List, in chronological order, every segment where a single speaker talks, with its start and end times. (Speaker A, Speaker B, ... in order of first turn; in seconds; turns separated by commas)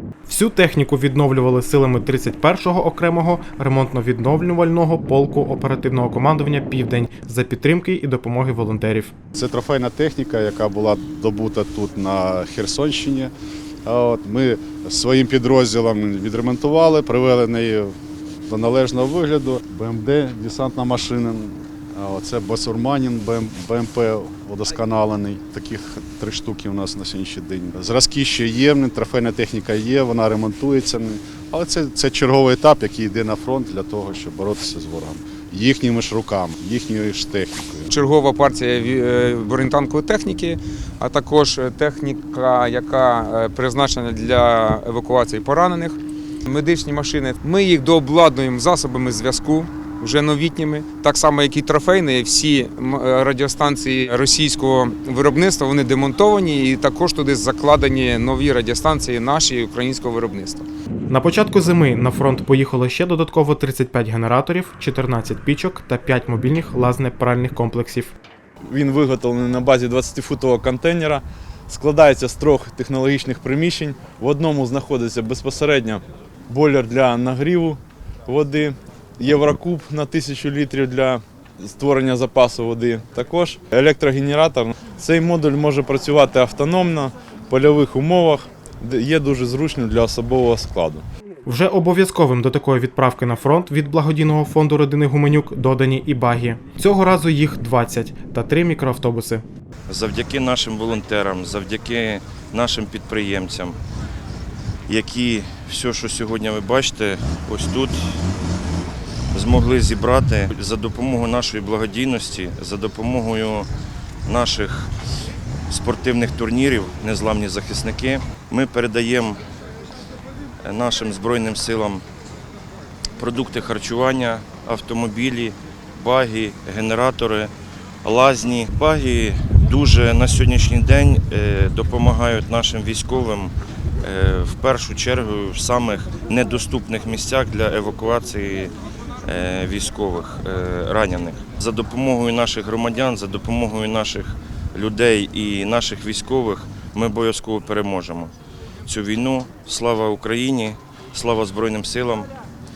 Speaker A: 0.3-9.1, Speaker B: 9.3-13.3, Speaker B: 13.8-17.9, Speaker B: 18.5-37.9, Speaker C: 37.9-60.6, Speaker A: 61.1-68.1, Speaker D: 68.6-91.0, Speaker A: 91.5-99.4, Speaker E: 99.9-103.8, Speaker E: 104.9-108.2, Speaker E: 109.3-113.7, Speaker E: 114.2-114.9, Speaker E: 115.7-119.4, Speaker E: 120.6-122.0, Speaker E: 123.2-127.5, Speaker E: 128.0-138.7, Speaker E: 139.2-148.3, Speaker E: 148.9-152.3